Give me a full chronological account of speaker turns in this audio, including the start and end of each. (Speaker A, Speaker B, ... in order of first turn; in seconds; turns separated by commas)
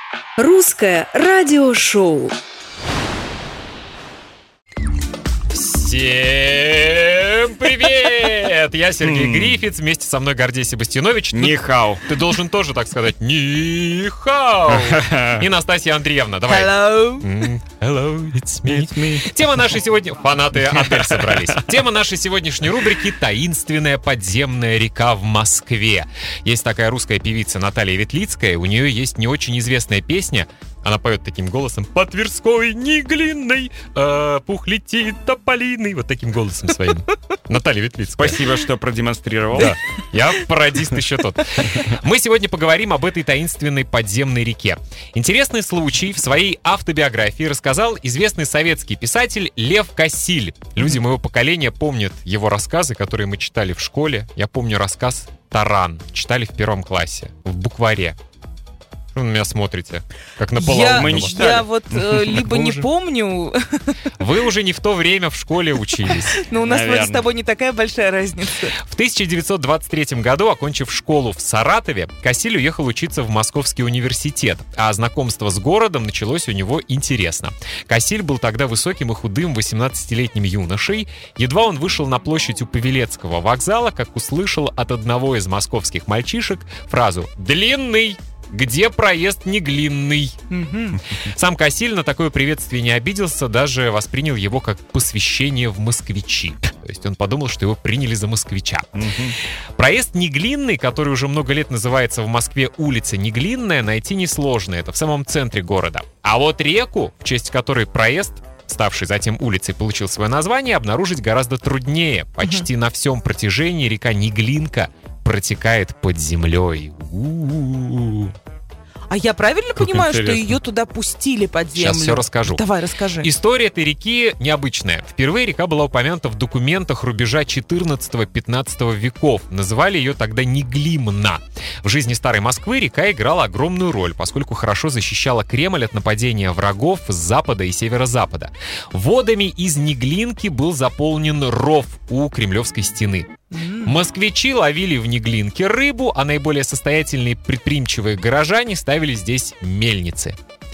Speaker A: 0.4-2.4, Speaker B: 5.5-38.4, Speaker C: 9.1-9.6, Speaker C: 11.3-12.1, Speaker C: 14.7-15.4, Speaker D: 16.5-17.3, Speaker C: 18.5-19.4, Speaker C: 20.9-21.5, Speaker C: 38.2-39.8, Speaker B: 39.5-58.2, Speaker B: 59.1-61.6, Speaker D: 60.6-64.1, Speaker C: 61.0-62.4, Speaker B: 62.3-62.9, Speaker B: 64.2-66.5, Speaker D: 66.3-68.8, Speaker C: 66.6-67.3, Speaker B: 68.7-90.4, Speaker D: 90.5-91.0, Speaker B: 91.1-118.3, Speaker C: 99.0-99.4, Speaker D: 119.1-123.3, Speaker B: 119.8-120.4, Speaker B: 121.8-122.6, Speaker B: 123.2-143.3, Speaker D: 143.5-144.0, Speaker B: 143.8-150.4